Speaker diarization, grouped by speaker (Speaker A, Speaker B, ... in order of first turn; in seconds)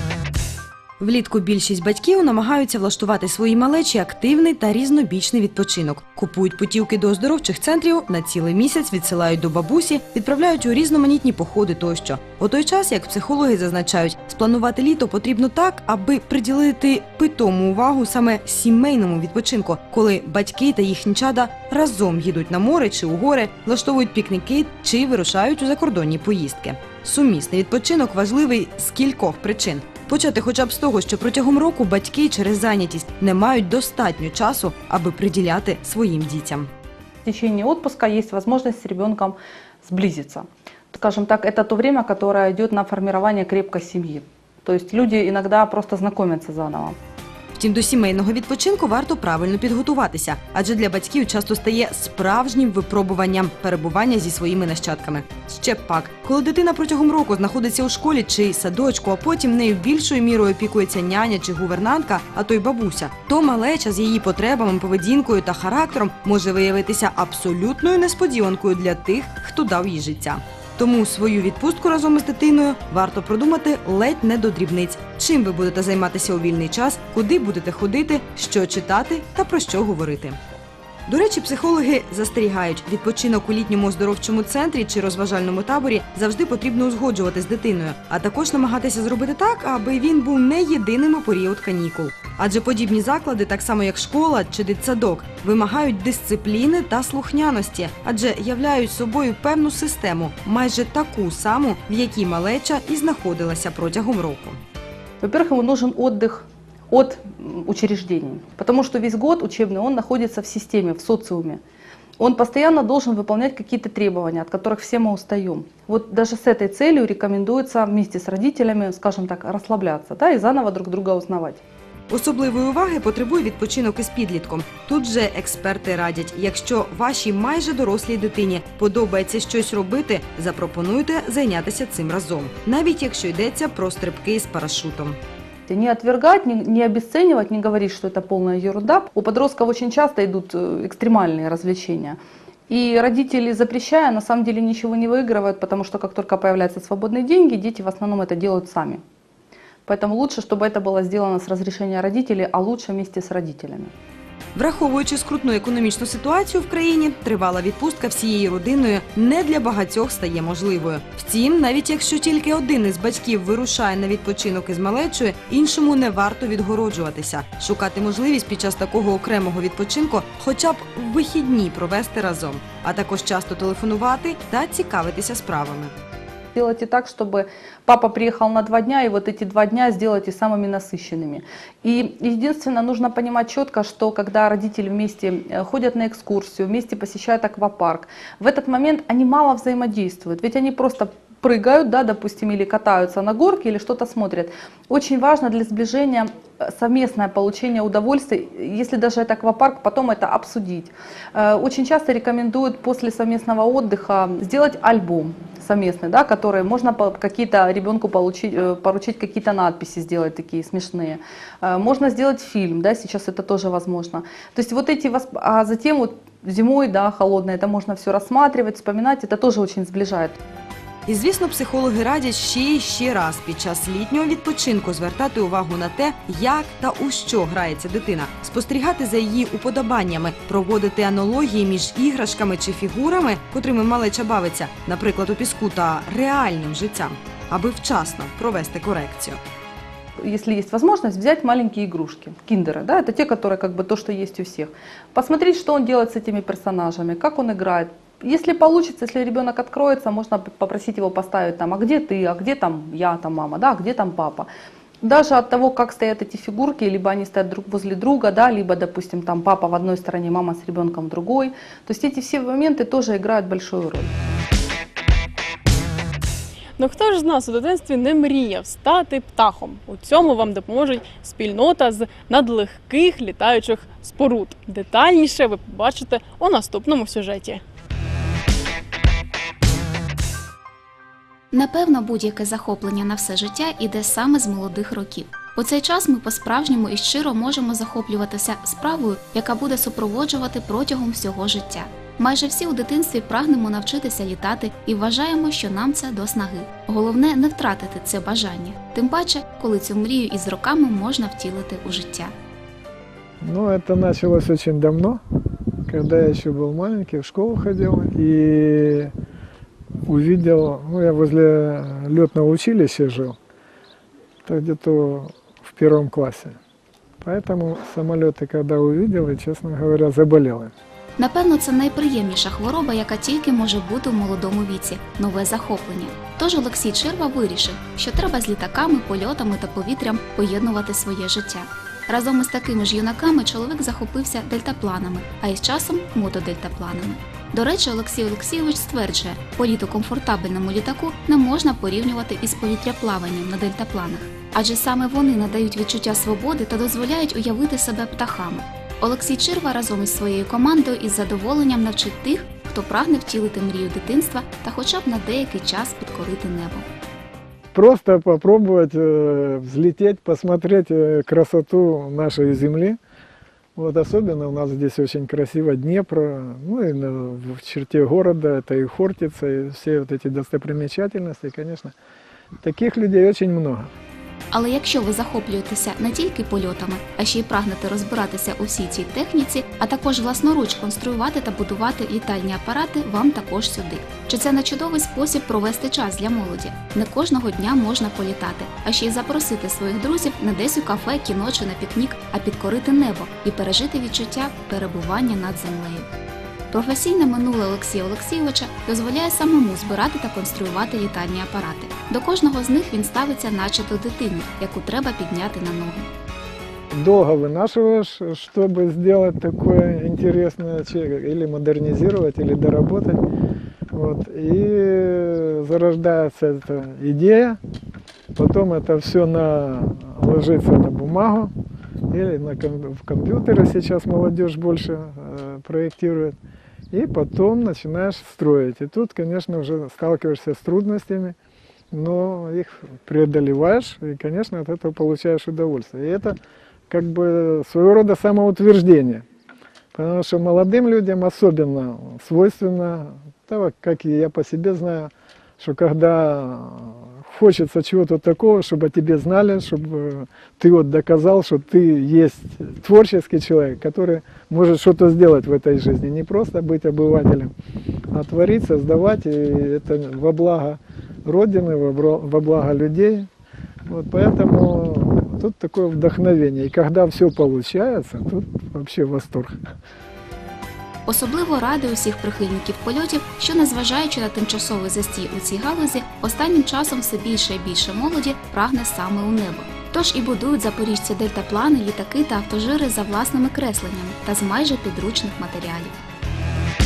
Speaker A: 1.0-36.7, 47.5-80.4, 81.1-104.6, 122.1-135.2, 154.5-175.9, 221.1-239.4
Speaker B: 37.2-47.0, 105.2-111.6, 112.2-121.6, 135.7-142.2, 142.7-149.0, 149.8-153.9, 176.5-220.4, 240.2-254.5, 255.0-264.1
Speaker C: 266.8-277.6
Speaker D: 281.5-302.3, 321.2-356.9, 374.5-396.1, 396.7-406.1, 471.1-485.9
Speaker E: 303.4-305.2, 305.9-309.1, 310.1-313.4, 314.4-316.6, 317.2-320.7, 357.7-363.0, 363.8-371.9, 372.6-373.9, 406.9-413.2, 413.9-417.6, 418.3-421.5, 422.1-426.3, 426.9-431.4, 431.9-436.4, 436.9-439.2, 439.9-457.5, 458.1-463.3, 463.9-469.6